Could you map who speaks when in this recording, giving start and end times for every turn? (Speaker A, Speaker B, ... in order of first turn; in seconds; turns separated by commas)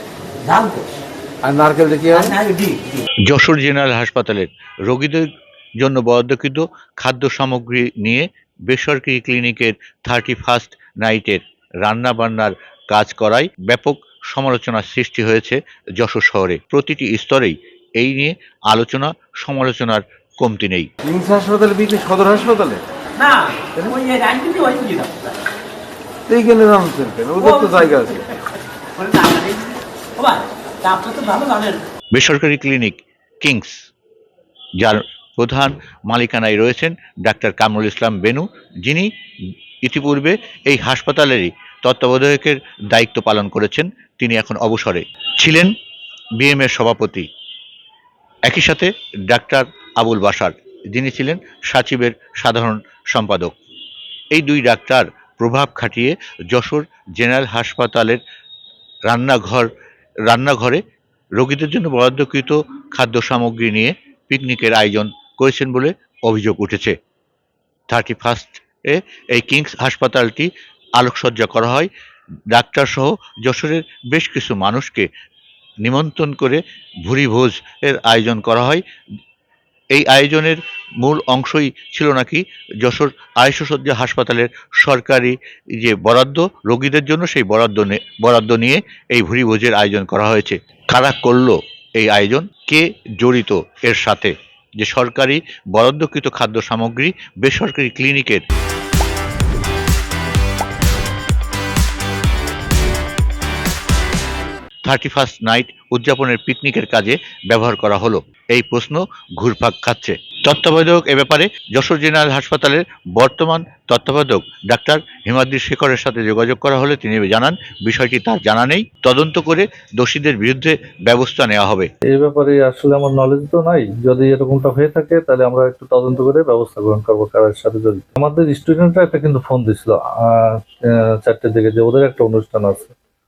Speaker A: 0.4-0.9, Speaker B: 1.4-2.3, Speaker A: 2.1-3.0, Speaker C: 3.3-5.3, Speaker C: 5.8-20.9, Speaker B: 21.0-22.8, Speaker A: 23.2-25.4, Speaker B: 26.3-28.2, Speaker A: 27.4-28.3, Speaker A: 28.9-31.8, Speaker C: 32.1-33.9, Speaker C: 34.8-39.1, Speaker C: 39.8-45.7, Speaker C: 46.4-47.3, Speaker C: 48.5-53.5, Speaker C: 54.3-58.2, Speaker C: 59.1-59.7, Speaker C: 60.3-60.8, Speaker C: 61.4-66.9, Speaker C: 67.9-71.9, Speaker C: 72.5-75.1, Speaker C: 75.8-78.8, Speaker C: 79.9-98.4, Speaker C: 104.8-121.9, Speaker D: 122.1-132.9